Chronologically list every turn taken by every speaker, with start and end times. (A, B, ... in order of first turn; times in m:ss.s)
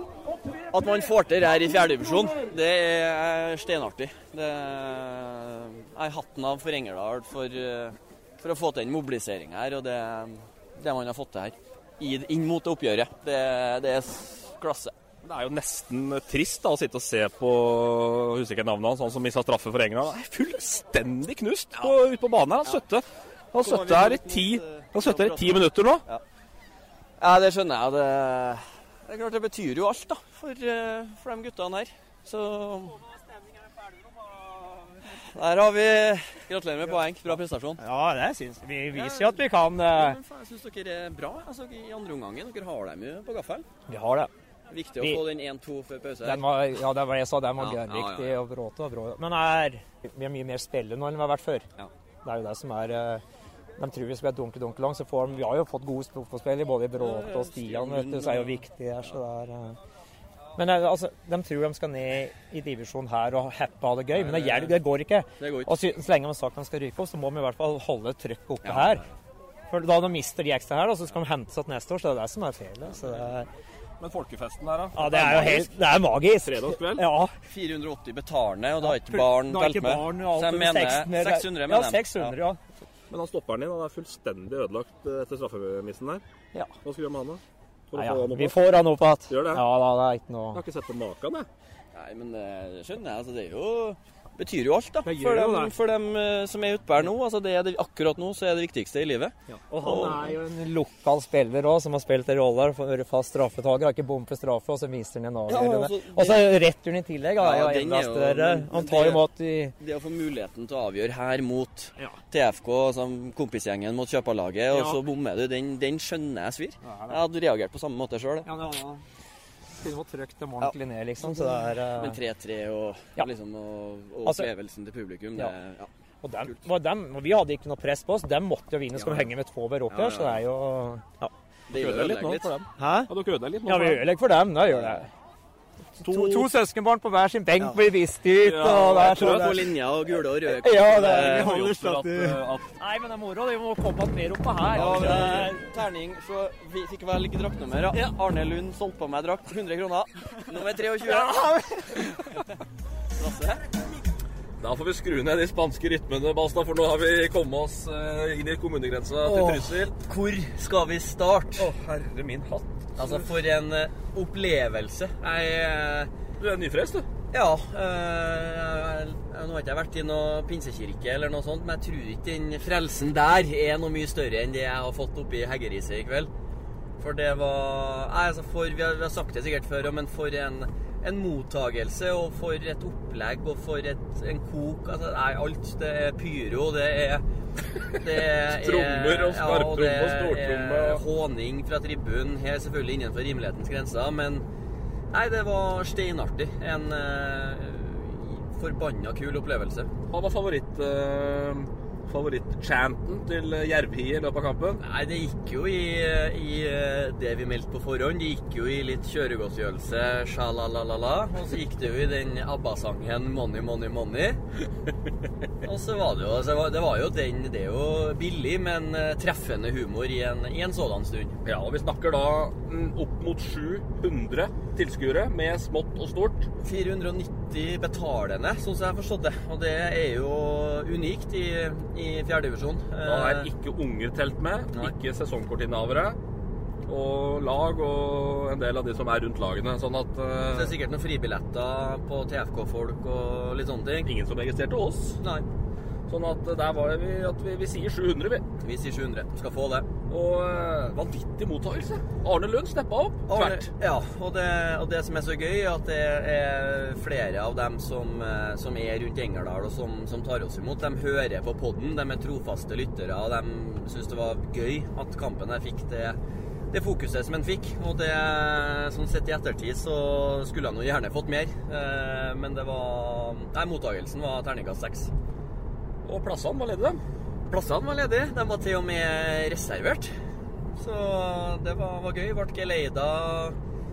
0:00.7-0:14.9 A
0:15.2-0:26.0 B
0:23.6-0:26.2 A
0:27.2-0:33.0 A
0:35.1-0:37.8 A
0:37.8-0:40.2 C
0:38.9-0:43.7 A
0:43.9-0:44.3 C
0:44.7-0:46.4 A
0:45.0-0:45.2 C
0:46.2-0:51.6 C
0:47.6-0:48.3 A
0:52.2-0:53.2 C
0:53.8-0:59.8 C
0:57.0-0:59.2 A
1:00.6-1:09.0 C
1:04.1-1:04.8 A
1:05.4-1:05.7 A
1:08.6-1:09.1 A
1:09.7-1:13.5 C
1:14.0-1:15.7 B
1:14.9-1:17.3 C
1:16.4-1:17.1 B
1:17.4-1:22.4 A
1:18.8-1:22.6 C
1:23.1-1:26.2 B
1:26.8-1:28.6 B
1:27.9-1:30.6 C
1:29.3-1:29.6 B
1:30.5-1:31.5 B
1:31.9-1:40.3 A
1:35.0-1:35.7 C
1:39.7-1:49.7 C
1:45.5-1:46.5 A
1:47.4-1:49.2 A
1:49.8-1:58.5 A
1:54.7-1:55.0 C
1:56.8-1:57.2 C
1:58.4-1:59.0 C
1:59.8-2:02.2 C
2:00.6-2:05.9 A
2:04.2-2:04.5 C
2:06.2-2:11.3 C
2:06.4-2:06.6 A
2:08.9-2:09.3 A
2:09.9-2:10.4 A
2:11.7-2:12.5 A
2:11.7-2:14.0 B
2:12.8-2:13.1 C
2:13.6-2:15.1 C
2:14.7-2:15.0 A
2:16.0-2:16.5 B
2:16.0-2:19.6 C
2:18.4-2:19.5 B
2:19.1-2:21.7 A
2:20.4-2:25.6 C
2:21.0-2:22.7 B
2:24.7-2:31.3 A
2:24.9-2:25.4 B
2:31.0-2:32.1 C
2:31.9-2:32.4 A
2:33.1-2:33.6 A
2:34.6-2:39.9 B
2:39.2-2:41.7 A
2:41.6-2:43.3 B
2:43.0-2:46.1 A
2:46.4-2:47.0 B
2:47.3-2:56.3 A
2:57.0-3:07.2 A
3:07.9-3:14.4 A
3:08.1-3:11.0 B
3:15.1-3:19.9 A
3:20.1-3:24.8 B
3:24.8-3:34.4 A
3:35.6-3:41.3 A
3:41.4-3:46.5 B
3:46.6-3:53.5 A
3:53.0-3:56.2 B
3:56.9-4:00.7 B
4:00.5-4:04.1 A
4:04.0-4:05.2 B
4:05.2-4:05.4 A
4:06.1-4:08.4 B
4:08.6-4:09.9 A
4:10.1-4:13.6 B
4:13.3-4:26.2 A
4:26.7-4:35.1 A
4:36.0-4:37.0 B
4:37.5-4:40.1 A
4:40.8-4:43.6 A